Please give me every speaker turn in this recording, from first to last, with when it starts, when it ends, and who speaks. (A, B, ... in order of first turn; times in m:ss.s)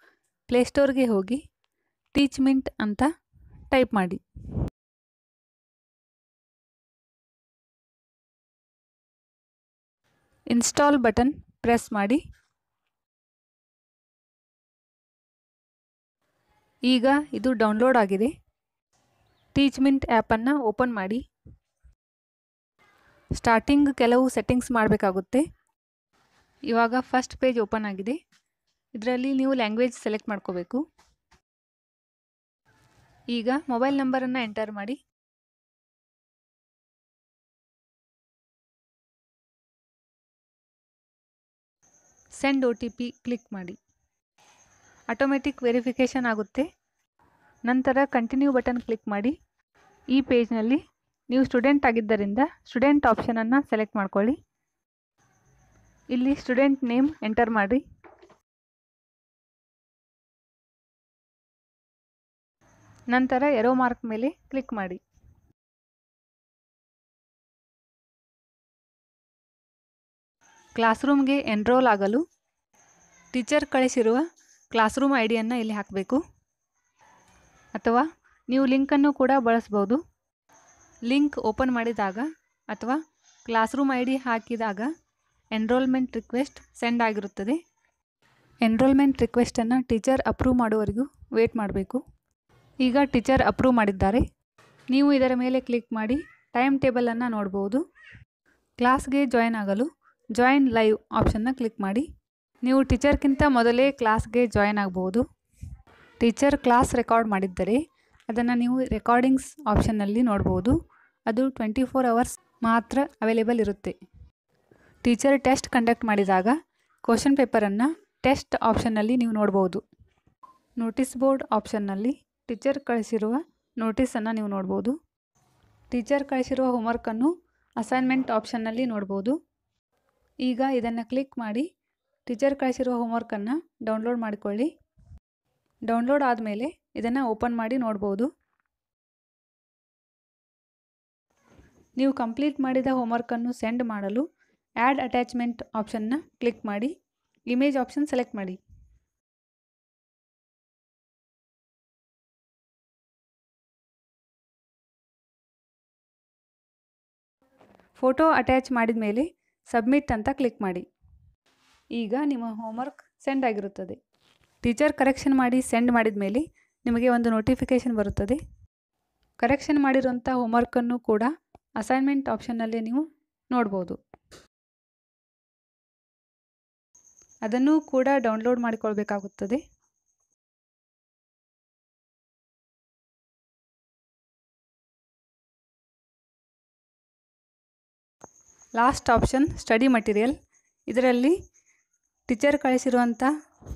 0:00.5-0:01.4 A
0:02.1-0:03.1 A
0:03.7-0:04.2 A
0:10.5-0:12.2 A
0:16.9-0:18.3 A
0:19.5-0:21.2 A
0:23.4-0:25.4 A
0:26.7-0:28.2 A
0:29.0-0:30.8 A
0:33.3-0:35.0 A
0:42.4-0:43.8 A
0:45.1-0:46.7 A
0:47.6-0:49.3 A
0:50.1-0:54.4 A
0:56.1-0:57.8 A
1:03.1-1:05.0 A
1:10.8-1:12.2 A
1:13.3-1:16.2 A
1:17.7-1:20.0 A
1:21.0-1:24.9 A
1:25.5-1:27.6 A
1:28.6-1:32.0 A
1:32.8-1:34.2 A
1:34.9-1:37.8 A
1:38.8-1:42.0 A
1:42.6-1:45.2 A
1:46.2-1:50.8 A
1:51.3-1:54.0 A
1:55.0-1:59.8 A
2:00.8-2:05.0 A
2:05.9-2:09.4 A
2:10.4-2:11.7 A
2:12.2-2:14.7 A
2:15.9-2:18.3 A
2:22.0-2:24.2 A
2:24.8-2:26.9 A
2:27.5-2:28.6 A
2:38.0-2:40.8 A
2:41.9-2:44.0 A
2:44.6-2:48.4 A
2:49.4-2:54.0 A
2:57.4-2:59.6 A
3:08.8-3:10.3 A
3:10.9-3:11.3 A
3:12.3-3:13.3 A